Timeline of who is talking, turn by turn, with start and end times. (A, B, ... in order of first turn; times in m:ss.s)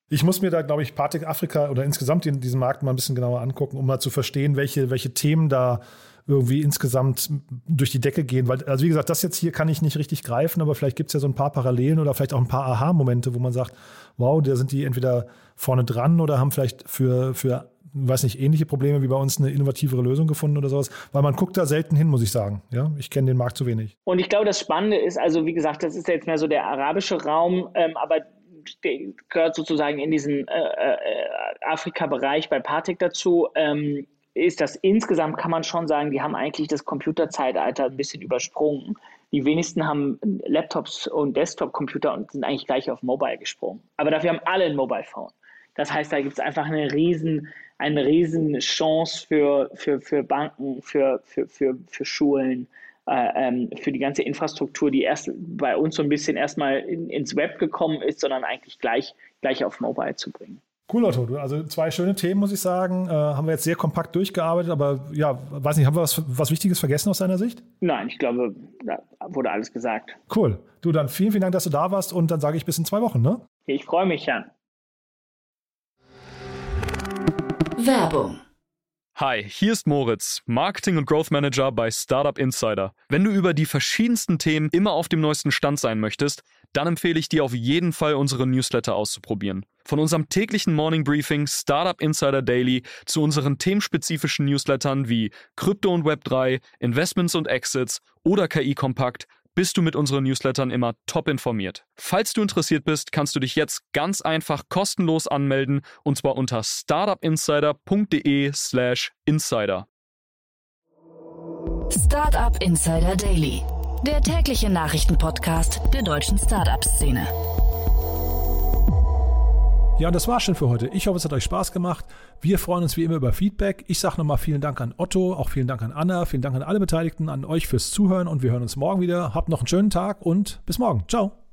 0:00.1-0:23.9 A
0:24.0-1:00.6 B
1:00.9-1:07.6 A
1:07.8-1:10.2 B
1:10.3-1:13.4 A
1:13.7-1:14.5 B
1:17.8-1:18.4 C
1:19.2-1:49.9 D
1:51.9-1:57.3 C
2:00.0-2:11.4 A